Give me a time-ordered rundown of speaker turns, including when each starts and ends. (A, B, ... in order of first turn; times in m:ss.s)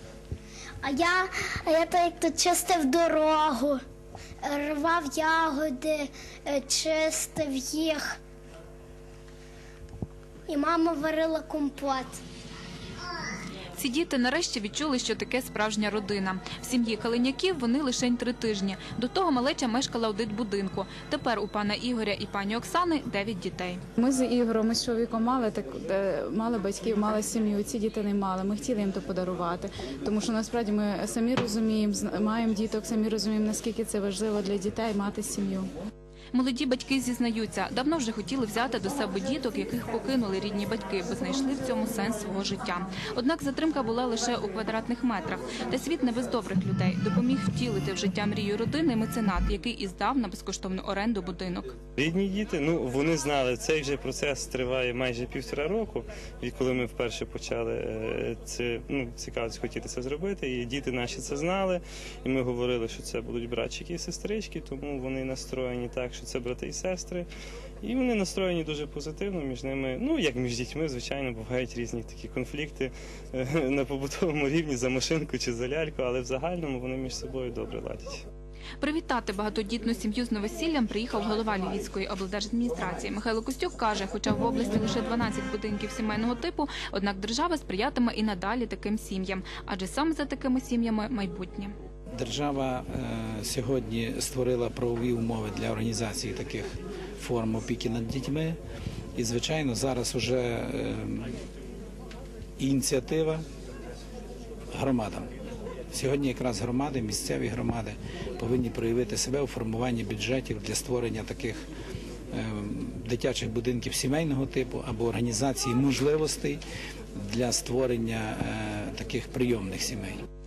0:00.8-0:03.8 A
0:04.4-0:08.2 A
0:10.5-0:12.2 A
0:13.7-0:23.8 B
0:24.0-0:35.7 C
0:36.3-0:51.7 B
0:52.0-1:07.3 D
1:07.8-1:18.2 D
1:18.8-1:31.7 B
1:32.2-1:38.6 E
1:39.2-1:41.4 E
1:42.6-1:43.4 E
1:44.7-1:45.3 E
1:45.9-1:51.6 E
1:52.3-1:56.6 E
1:57.2-2:00.2 E